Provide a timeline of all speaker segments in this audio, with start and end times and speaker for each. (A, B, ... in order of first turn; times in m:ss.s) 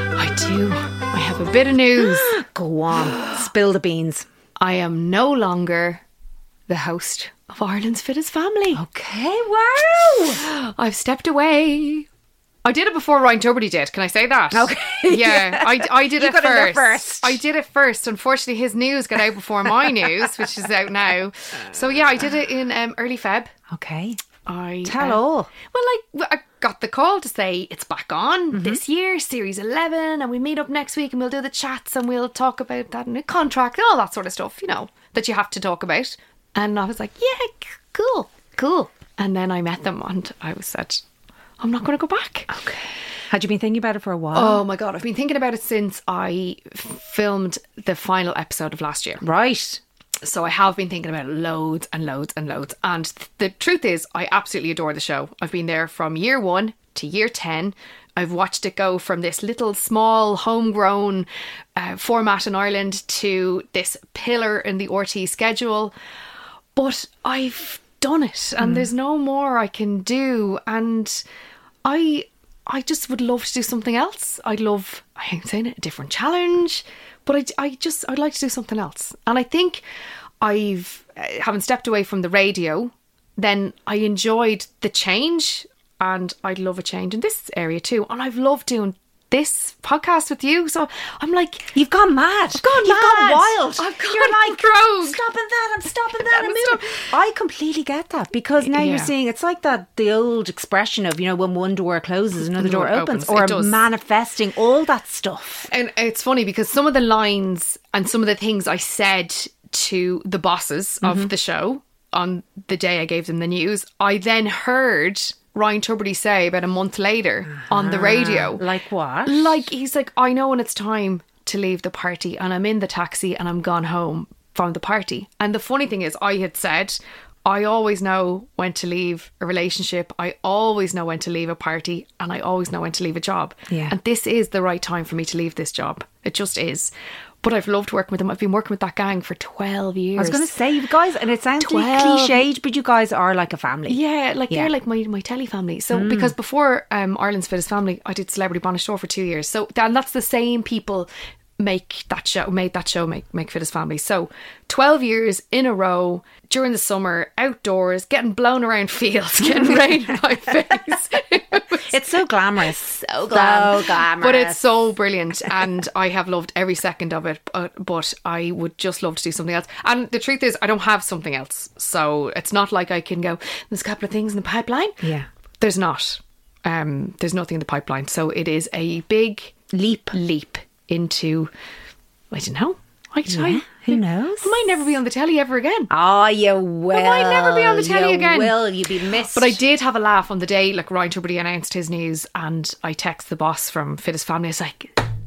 0:00.2-0:02.3 A
0:02.0-0:04.2 B
0:04.6-0:06.0 A
0:06.7-0:08.8 A
0:08.7-0:10.4 B
0:10.3-0:12.1 A
0:12.6-0:23.5 A
0:14.5-0:17.4 B
0:23.7-0:24.2 B
0:24.4-0:41.0 A
0:24.8-0:25.5 B
0:28.5-0:28.8 B
0:41.6-0:42.5 A
0:42.5-0:44.6 B
0:44.3-0:49.2 A
0:49.2-0:49.8 B
0:50.2-1:05.9 A
1:06.7-1:11.2 A
1:08.6-1:08.9 B
1:11.8-1:19.8 A
1:20.4-1:31.7 A
1:31.7-1:45.7 B
1:32.5-1:35.2 A
1:36.1-1:36.9 A
1:38.6-1:39.1 A
1:42.4-1:43.8 A
1:45.7-1:58.6 A
1:51.0-1:51.3 B
1:57.5-1:59.6 B
1:59.2-2:16.9 A
2:13.7-2:13.9 B
2:17.4-2:20.5 A
2:20.2-2:24.0 B
2:21.6-2:22.4 A
2:23.9-2:41.9 A
2:25.9-2:26.3 B
2:41.7-2:44.7 B
2:43.3-2:55.0 A
2:55.0-2:55.3 B
2:55.6-2:59.5 A
2:59.7-3:00.2 B
3:00.1-3:01.5 A
3:02.3-3:05.9 A
3:03.2-3:04.7 B
3:05.9-3:09.6 B
3:06.9-3:08.6 A
3:09.3-3:15.0 A